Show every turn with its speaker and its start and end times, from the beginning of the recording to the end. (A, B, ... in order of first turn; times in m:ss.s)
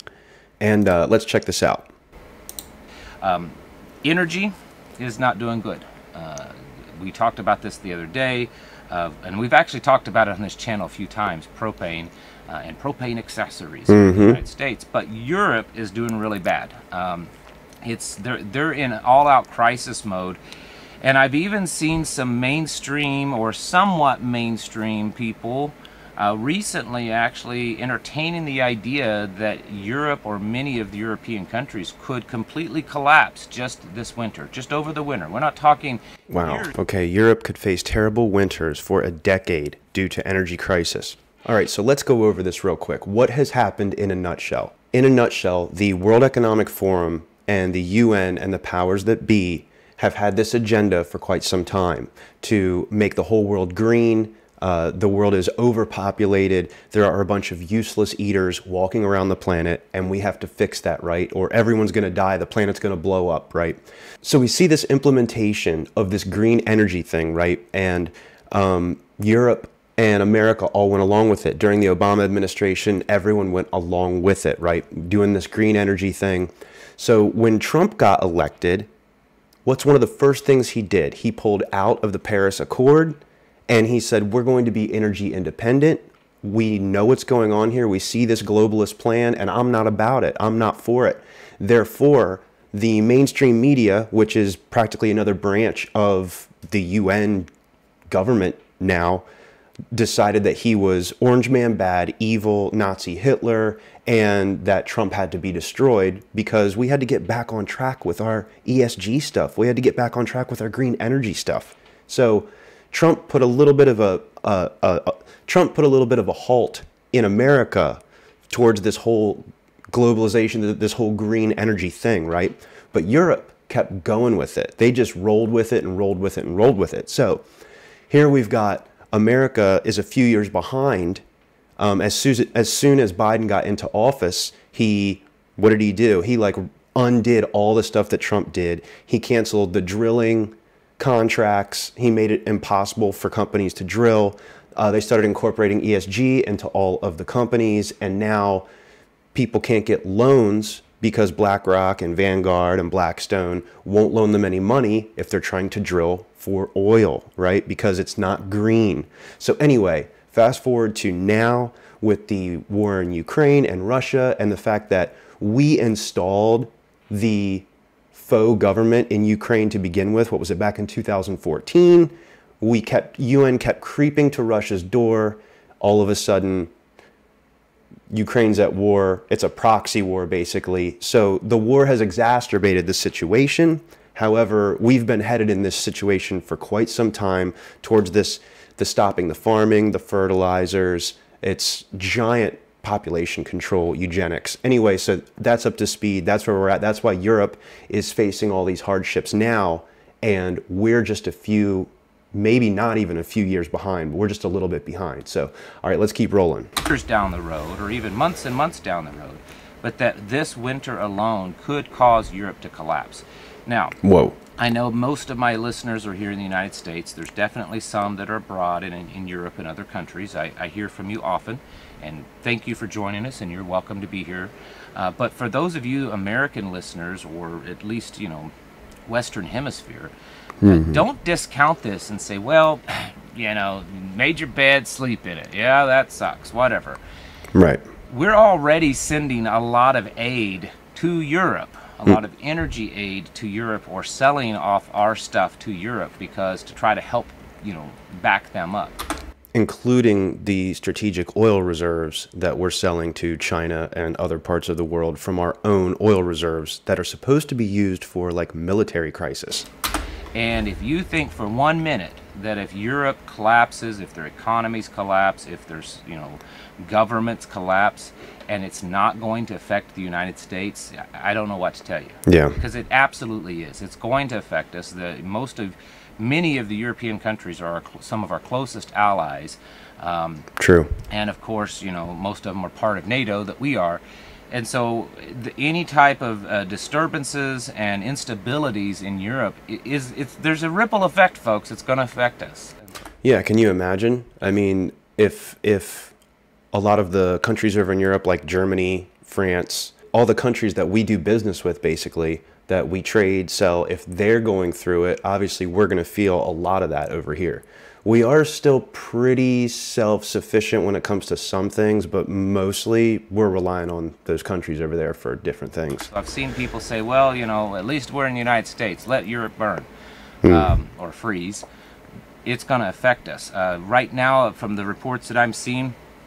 0:00.6-0:01.9 A
0:03.2-0:17.3 B
0:13.9-0:14.4 A
0:17.8-0:20.4 B
0:21.0-0:36.8 B
0:36.3-1:18.9 A
1:19.6-1:37.5 A
1:38.1-1:39.2 A
1:39.9-2:07.4 A
2:08.1-2:11.2 A
2:11.8-2:28.7 A
2:29.3-2:56.7 A
2:58.1-3:26.7 A
3:26.8-3:34.0 B
3:34.0-3:34.4 A
3:34.6-3:48.5 B
3:49.0-3:50.1 B
3:50.6-3:51.0 A
3:50.6-3:57.0 B
3:57.5-3:57.8 A
3:58.1-4:09.0 B
4:09.5-4:19.7 A
4:20.3-4:40.5 B
4:32.3-4:32.6 A
4:40.6-4:40.9 A
4:41.1-4:52.9 B
4:53.2-4:56.1 A
4:56.7-5:16.1 A
5:16.1-5:19.9 B
5:20.4-5:20.8 A
5:20.4-5:21.6 B
5:22.4-5:26.0 B